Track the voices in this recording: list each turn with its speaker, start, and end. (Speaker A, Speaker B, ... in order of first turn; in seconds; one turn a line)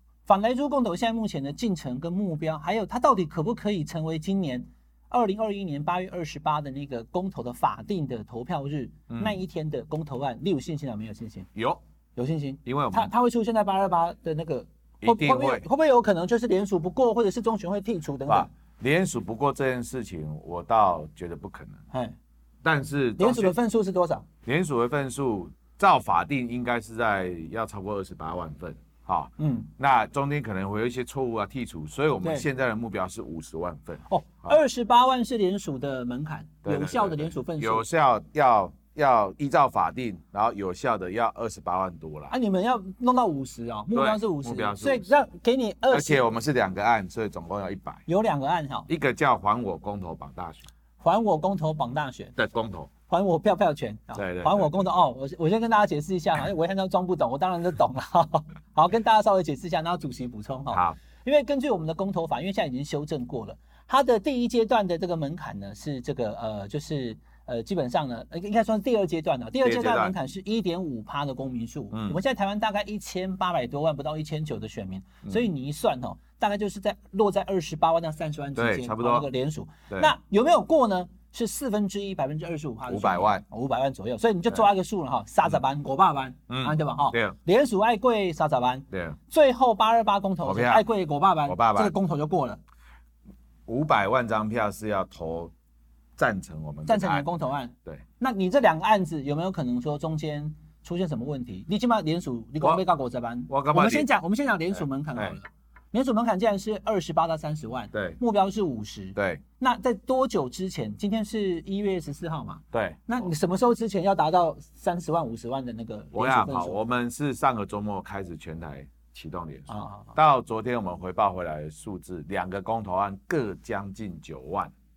Speaker A: 0.2-11.5
Speaker B: 9.1-9.4
Speaker B: 11.5-11.8
Speaker A: 12.2-18.5
Speaker B: 12.6-13.1
Speaker B: 15.0-15.7
Speaker B: 18.3-21.8
Speaker A: 21.9-22.2
Speaker B: 22.6-23.6
Speaker A: 23.2-24.2
Speaker B: 24.4-34.6
Speaker A: 29.4-29.7
Speaker A: 34.1-37.8
Speaker B: 36.6-42.3
Speaker A: 42.3-46.2
Speaker B: 43.9-45.1
Speaker B: 45.9-48.0
Speaker A: 48.1-48.9
Speaker B: 48.9-50.7
Speaker A: 51.0-52.3
Speaker B: 52.4-52.9
Speaker A: 53.1-92.6
Speaker B: 54.1-54.9
Speaker B: 60.7-61.0
Speaker B: 69.6-70.2
Speaker B: 71.9-72.2
Speaker B: 78.5-79.3
Speaker B: 82.9-83.4
Speaker B: 86.5-87.3
Speaker B: 88.9-89.2
Speaker B: 90.4-90.8
Speaker B: 91.5-91.9
Speaker B: 93.7-95.5
Speaker B: 96.2-97.2
Speaker A: 96.8-116.8
Speaker B: 103.5-104.1
Speaker B: 107.9-108.2
Speaker B: 109.2-109.4
Speaker B: 112.7-113.3
Speaker B: 116.1-124.7
Speaker A: 119.7-120.1